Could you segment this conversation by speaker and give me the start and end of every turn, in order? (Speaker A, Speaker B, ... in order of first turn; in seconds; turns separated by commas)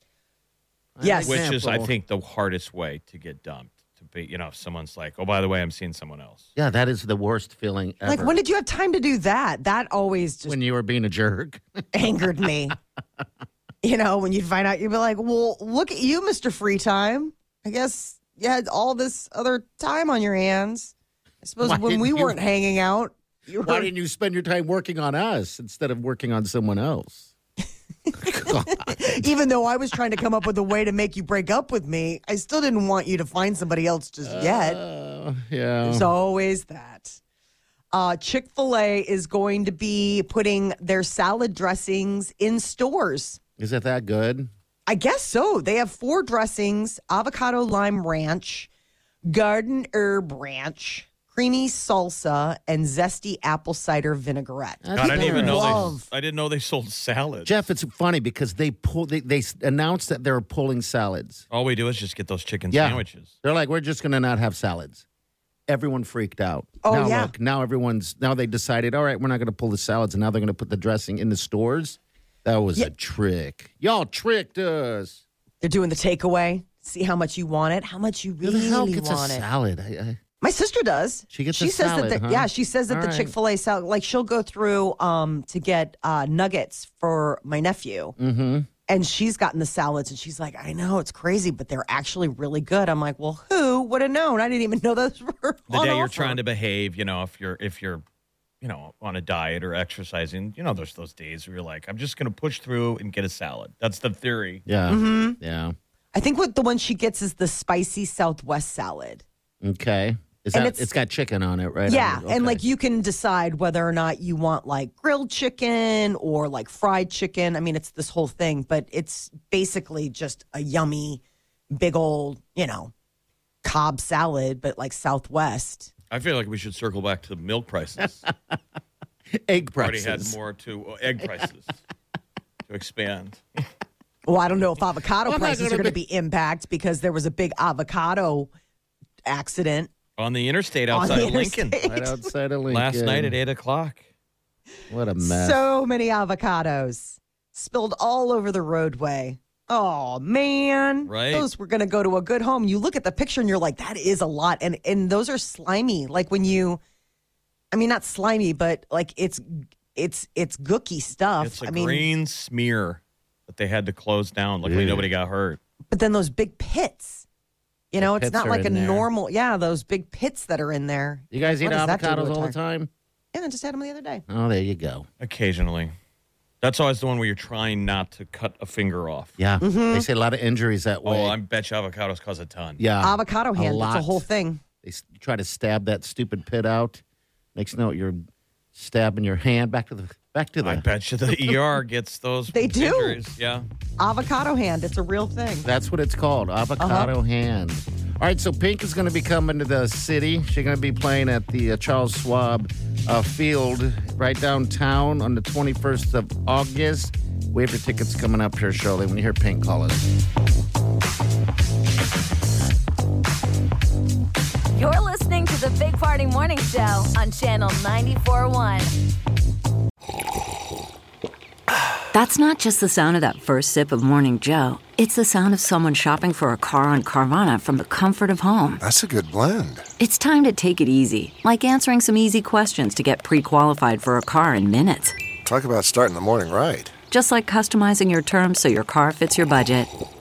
Speaker A: 0.9-1.9, Speaker B: 1.0-1.4, Speaker C: 1.2-6.5, Speaker A: 6.5-8.3, Speaker B: 8.0-10.6, Speaker A: 10.5-11.8, Speaker B: 11.9-12.8, Speaker B: 13.8-23.9, Speaker A: 21.6-22.4, Speaker A: 23.6-27.3, Speaker B: 28.1-34.8, Speaker A: 28.2-29.2, Speaker A: 34.2-36.1, Speaker B: 35.8-37.2, Speaker B: 37.9-43.4, Speaker A: 43.6-44.5, Speaker B: 44.9-48.7, Speaker B: 49.3-56.1, Speaker A: 54.8-56.0, Speaker C: 55.0-57.6, Speaker A: 57.4-61.4, Speaker C: 61.5-63.3, Speaker A: 62.7-65.0, Speaker A: 65.7-75.2, Speaker B: 66.8-67.3, Speaker B: 75.6-79.4, Speaker A: 78.4-80.2, Speaker B: 80.4-88.2, Speaker A: 81.3-83.3, Speaker A: 88.2-88.7, Speaker B: 88.9-96.4, Speaker C: 95.7-98.0, Speaker C: 98.6-104.6, Speaker A: 104.7-105.8, Speaker B: 104.9-105.4, Speaker B: 106.1-109.2, Speaker A: 109.6-112.6, Speaker B: 110.5-110.9, Speaker B: 111.9-122.9, Speaker B: 123.6-125.9, Speaker C: 126.1-128.2, Speaker A: 129.3-130.3, Speaker C: 129.7-131.8, Speaker C: 132.7-133.6, Speaker B: 134.2-138.5, Speaker A: 135.2-136.0, Speaker B: 139.2-139.9, Speaker C: 140.2-141.7, Speaker B: 140.9-142.2, Speaker A: 141.8-143.3, Speaker C: 142.7-144.0, Speaker A: 144.9-145.6, Speaker B: 145.2-156.8, Speaker C: 151.1-151.5, Speaker B: 157.7-162.1, Speaker C: 161.4-165.6, Speaker A: 164.6-165.1, Speaker B: 165.9-167.2, Speaker B: 167.9-172.6, Speaker A: 168.0-169.1, Speaker A: 171.3-172.9, Speaker B: 173.3-174.2, Speaker A: 174.3-175.1, Speaker C: 175.2-175.9, Speaker C: 176.6-179.3, Speaker A: 179.4-181.3, Speaker B: 179.6-180.1, Speaker C: 181.0-182.8, Speaker A: 182.8-184.2, Speaker B: 183.0-184.6, Speaker A: 184.8-187.0, Speaker A: 187.5-188.2, Speaker A: 188.7-190.8, Speaker C: 190.6-193.7, Speaker B: 192.5-193.2, Speaker B: 194.0-195.7, Speaker A: 195.6-210.1, Speaker B: 196.8-197.1, Speaker D: 214.7-218.9, Speaker E: 222.1-228.8, Speaker F: 228.8-229.9, Speaker E: 230.0-235.2, Speaker F: 235.4-236.9, Speaker E: 237.1-239.9